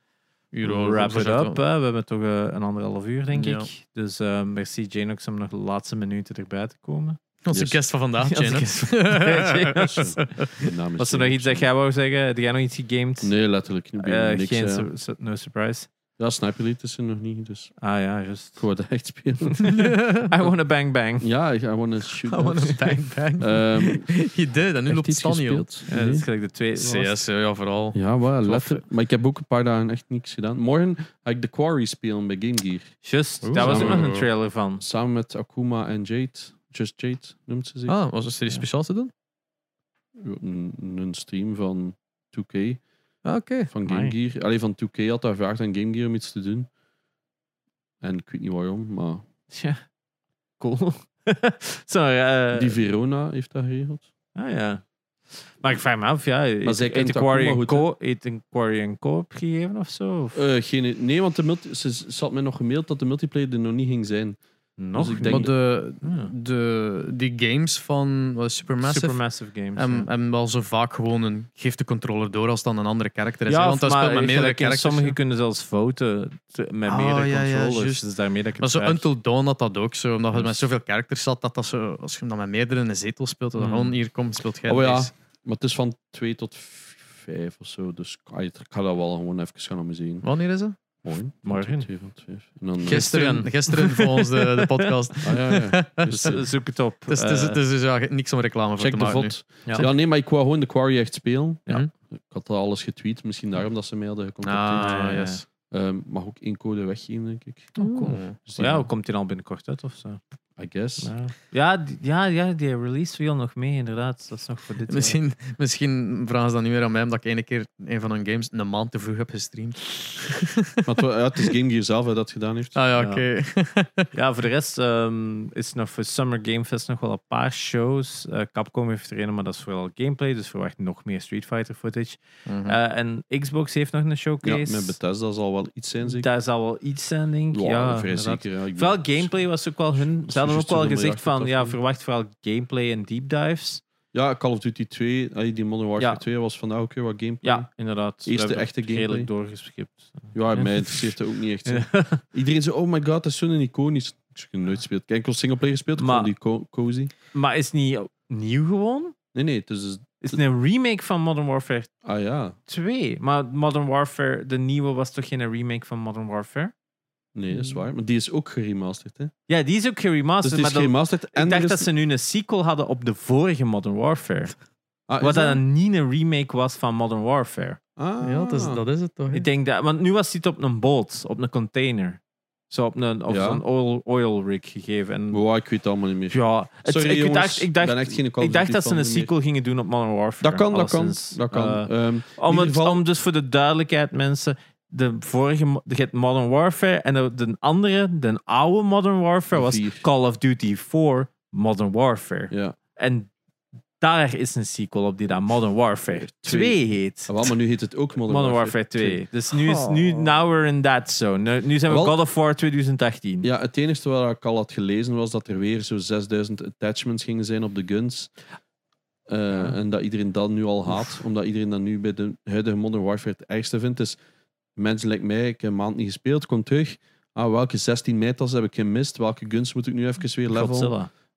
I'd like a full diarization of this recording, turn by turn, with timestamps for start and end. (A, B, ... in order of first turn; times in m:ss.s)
0:00.5-0:01.6 A
0:00.6-0:07.2 B
0:03.3-0:03.7 A
0:07.4-0:10.5 A
0:07.5-0:07.8 C
0:08.2-0:13.3 B
0:09.8-0:11.7 C
0:13.2-0:14.9 C
0:14.0-0:15.9 B
0:16.2-0:17.7 C
0:17.8-0:18.6 B
0:18.6-0:19.8 C
0:19.6-0:21.3 B
0:19.6-0:20.3 A
0:21.2-0:24.1 C
0:22.3-0:26.1 A
0:24.9-0:26.2 C
0:25.9-0:27.2 B
0:26.8-0:28.8 A
0:27.9-0:32.9 C
0:33.0-0:34.8 B
0:33.4-0:34.2 A
0:33.5-0:34.1 C
0:34.8-0:38.0 C
0:37.9-0:39.1 A
0:40.2-0:42.8 C
0:43.2-0:43.7 A
0:43.7-0:46.7 C
0:43.8-0:44.2 B
0:48.0-0:49.2 C
0:49.5-0:49.8 B
0:50.6-0:52.8 B
0:52.5-0:54.1 C
0:54.4-0:54.8 B
0:55.6-1:00.4 B
0:56.6-0:57.9 C
1:00.3-1:04.4 C
1:04.8-1:06.3 B
1:04.9-1:05.5 C
1:05.2-1:09.2 A
1:08.8-1:10.1 B
1:09.8-1:15.2 A
1:13.5-1:19.1 B
1:16.9-1:18.0 A
1:18.6-1:25.1 A
1:20.3-1:20.6 B
1:23.6-1:23.9 B
1:24.7-1:30.3 C
1:30.2-1:30.8 A
1:31.0-1:33.1 C
1:31.4-1:31.9 B
1:32.8-1:34.6 B
1:32.8-1:36.4 A
1:35.2-1:36.4 C
1:36.1-1:37.6 B
1:37.1-1:39.9 A
1:38.8-1:45.1 C
1:44.4-1:45.4 A
1:44.8-1:45.4 B
1:45.7-1:47.8 C
1:47.8-1:50.2 B
1:47.8-1:48.4 A
1:48.4-1:48.9 C
1:50.6-1:51.1 C
1:51.0-1:55.2 B
1:54.9-2:00.8 A
2:00.8-2:02.8 C
2:02.7-2:04.1 A
2:03.0-2:03.2 B
2:04.1-2:15.0 B
2:12.4-2:12.8 A
2:14.4-2:16.3 C
2:16.0-2:23.8 B
2:17.5-2:19.3 C
2:20.0-2:21.8 C
2:24.1-2:27.7 C
2:27.4-2:32.2 B
2:28.2-2:29.3 C
2:30.3-2:37.1 C
2:36.0-2:36.3 B
2:37.3-2:39.1 B
2:39.3-2:40.4 C
2:40.2-2:41.9 B
2:42.0-2:42.6 C
2:42.7-2:46.7 B
2:47.3-2:49.3 C
2:49.5-2:54.5 B
2:50.4-2:51.9 C
2:55.1-2:55.6 C
2:55.2-2:57.8 B
2:58.0-2:58.8 C
2:58.2-2:59.4 A
2:59.3-3:05.4 B
3:03.3-3:03.6 C
3:05.3-3:09.3 C
3:06.3-3:23.3 B
3:10.4-3:13.0 C
3:19.5-3:20.0 C
3:22.5-3:22.8 C
3:24.0-3:27.5 B
3:26.1-3:29.2 C
3:28.3-3:33.5 B
3:31.9-3:32.1 C
3:33.4-3:38.3 C
3:39.3-3:44.2 C
3:44.8-3:50.9 C
3:50.5-3:51.1 B